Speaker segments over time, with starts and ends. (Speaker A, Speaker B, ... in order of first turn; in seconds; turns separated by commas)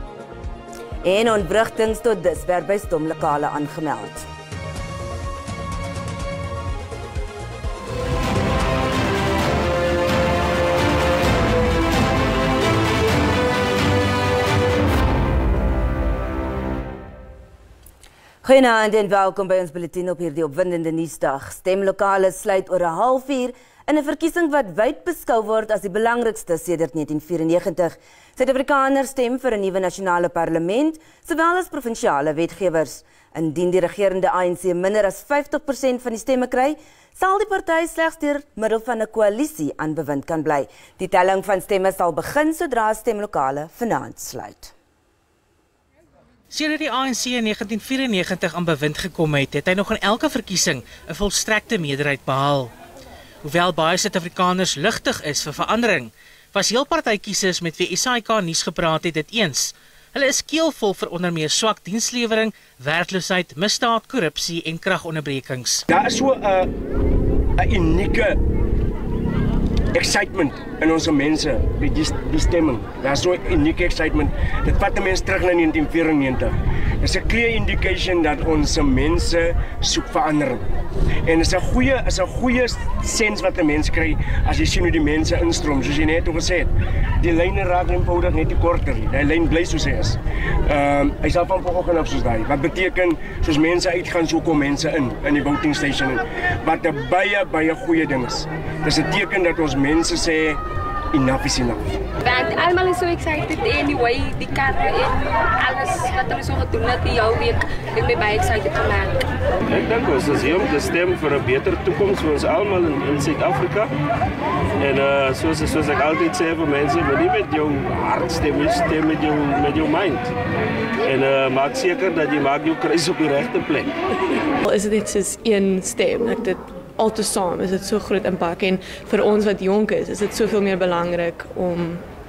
Speaker A: 1.0-4.3, Speaker A: 18.4-44.7, Speaker B: 46.5-52.7, Speaker B: 53.4-65.8, Speaker C: 65.9-66.7, Speaker C: 67.6-68.4, Speaker C: 69.9-80.7, Speaker C: 81.3-100.6, Speaker C: 101.1-102.0, Speaker D: 102.2-109.2, Speaker E: 109.7-113.9, Speaker E: 114.8-120.3, Speaker E: 121.0-123.9, Speaker F: 124.6-132.1